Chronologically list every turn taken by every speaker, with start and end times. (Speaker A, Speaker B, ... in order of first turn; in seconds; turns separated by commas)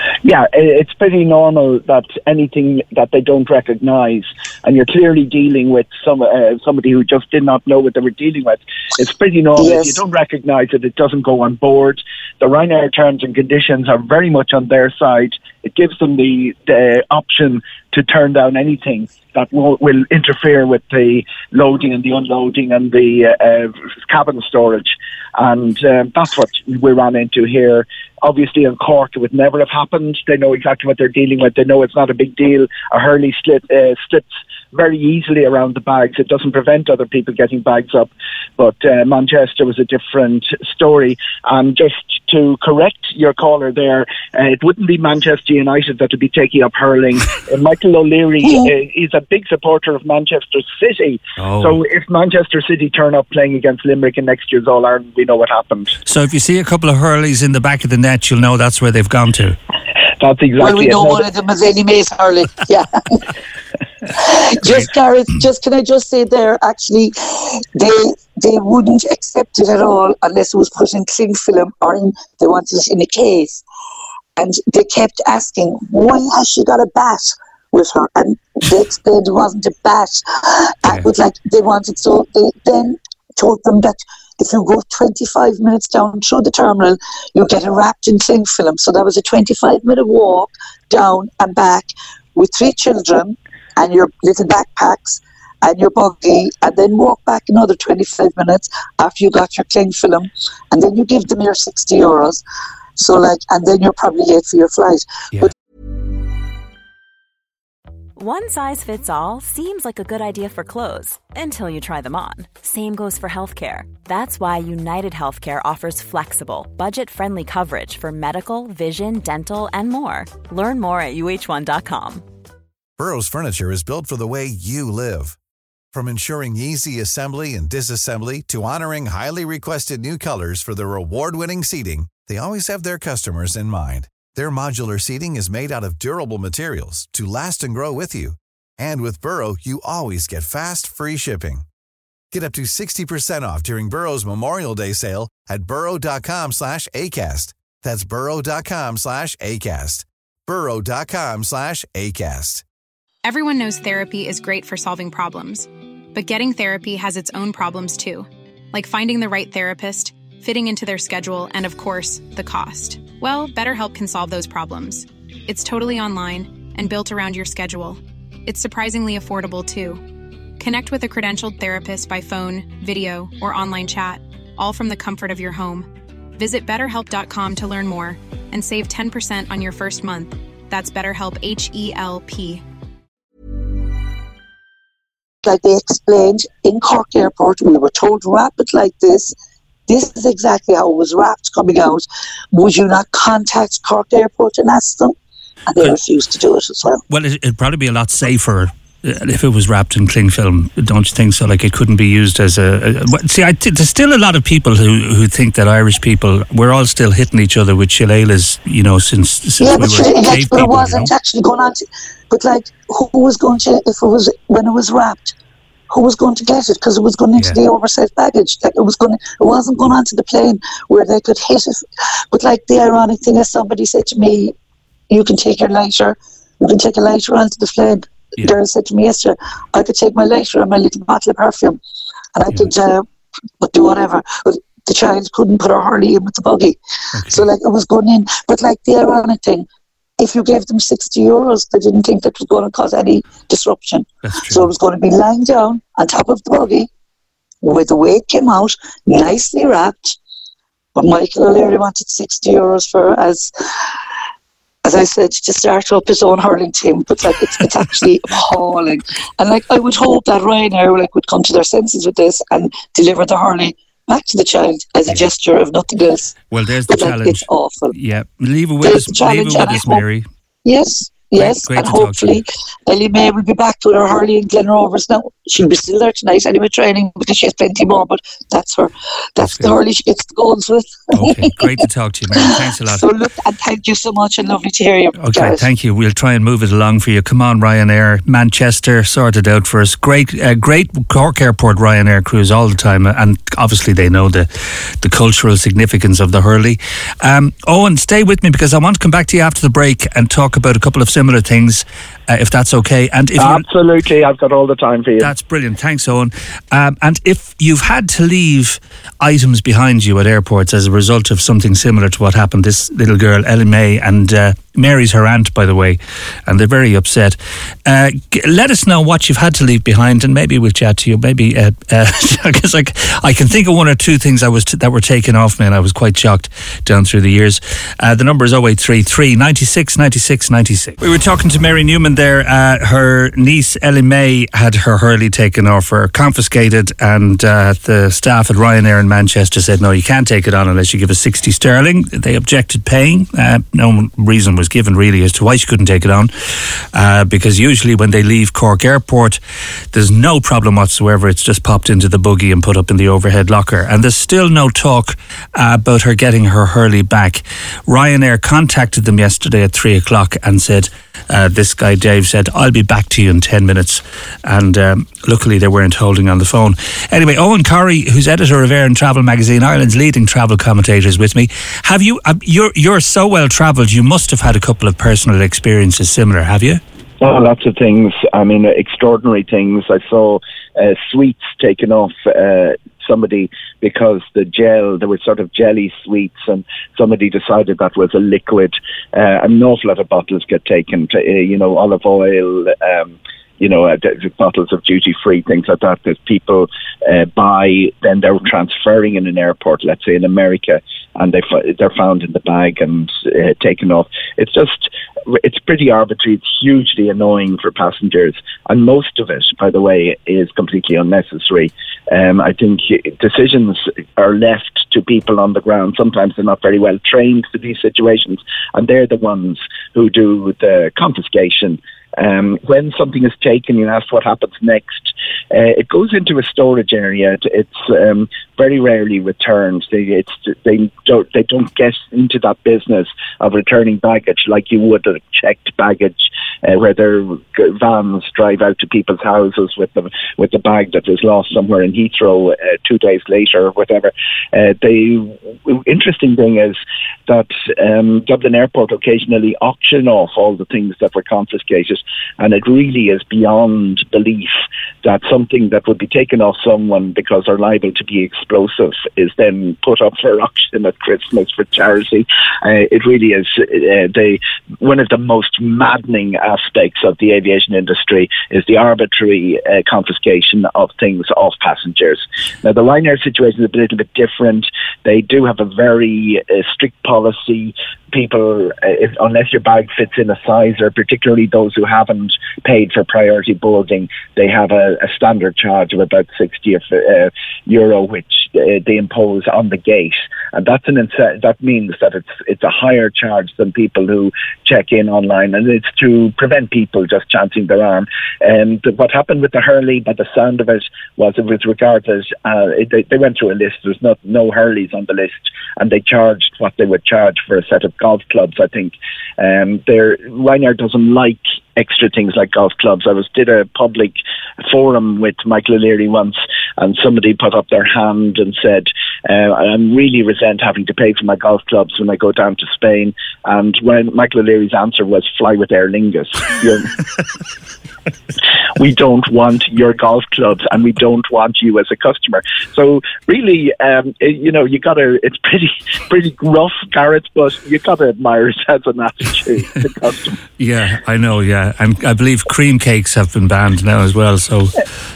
Speaker A: 0.2-56.0, Speaker B: 9.6-10.0, Speaker B: 48.5-48.7, Speaker C: 51.4-51.8, Speaker C: 56.1-59.6, Speaker A: 60.2-61.2, Speaker B: 60.6-63.3, Speaker B: 64.2-73.6, Speaker B: 74.4-102.4, Speaker B: 103.0-105.5, Speaker D: 108.2-122.3, Speaker E: 123.0-125.4, Speaker E: 125.9-141.7, Speaker E: 142.3-152.6, Speaker F: 153.2-170.0, Speaker F: 170.6-182.6, Speaker B: 185.4-189.3, Speaker B: 189.9-195.2, Speaker B: 195.7-197.0, Speaker C: 197.1-211.1, Speaker B: 209.6-215.3, Speaker B: 215.9-224.5, Speaker B: 225.1-231.8, Speaker B: 232.3-233.1, Speaker B: 233.6-239.7, Speaker C: 237.2-237.5, Speaker B: 240.2-246.9, Speaker C: 244.2-244.7, Speaker B: 247.6-250.2, Speaker B: 250.9-253.9, Speaker B: 254.8-267.9, Speaker C: 266.5-270.3, Speaker B: 268.8-270.0, Speaker B: 270.6-281.6, Speaker C: 271.4-272.4, Speaker C: 279.4-279.8, Speaker C: 281.1-283.1, Speaker B: 282.4-285.7, Speaker C: 285.2-303.6, Speaker A: 303.4-305.3, Speaker C: 305.2-349.4, Speaker C: 349.9-376.8, Speaker A: 377.2-527.0, Speaker A: 528.7-540.4, Speaker C: 540.6-544.9